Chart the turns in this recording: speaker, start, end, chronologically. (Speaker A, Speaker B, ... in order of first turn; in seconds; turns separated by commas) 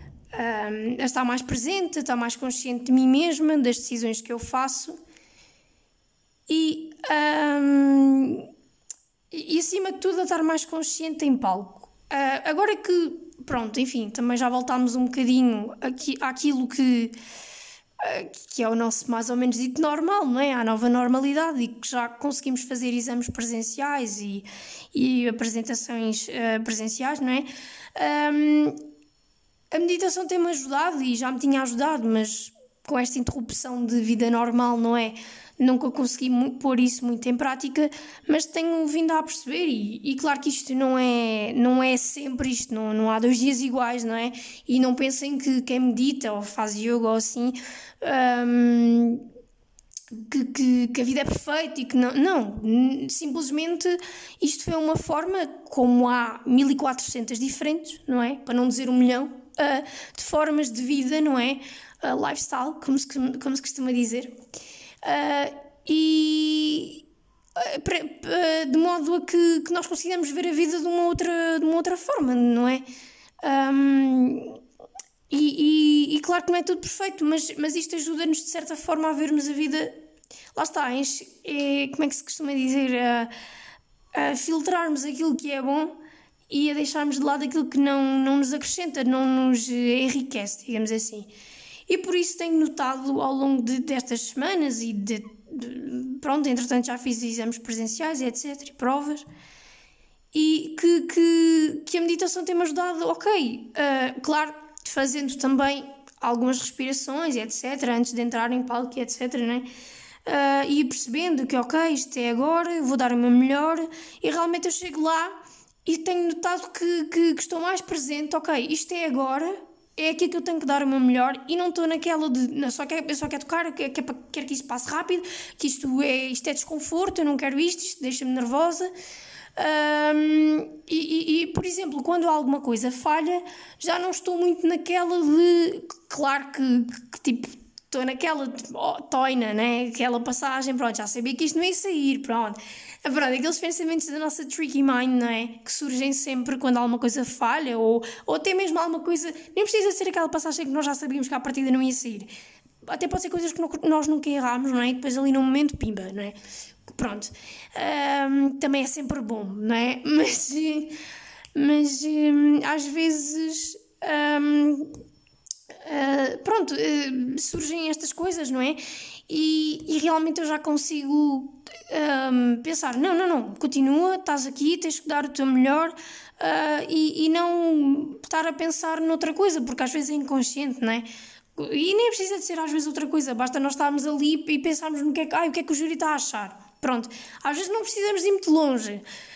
Speaker A: 0.3-5.0, Speaker A: 6.5-8.5, Speaker A: 9.3-17.1, Speaker A: 18.0-28.8, Speaker A: 29.7-49.2, Speaker A: 50.1-64.4, Speaker A: 65.0-67.0, Speaker A: 67.5-72.8, Speaker A: 73.4-74.6, Speaker A: 75.3-80.0, Speaker A: 80.5-83.3, Speaker A: 84.1-86.0, Speaker A: 86.5-91.3, Speaker A: 91.9-99.2, Speaker A: 100.3-109.7, Speaker A: 110.2-128.9, Speaker A: 129.6-152.3, Speaker A: 152.8-160.9, Speaker A: 161.5-164.9, Speaker A: 165.8-189.0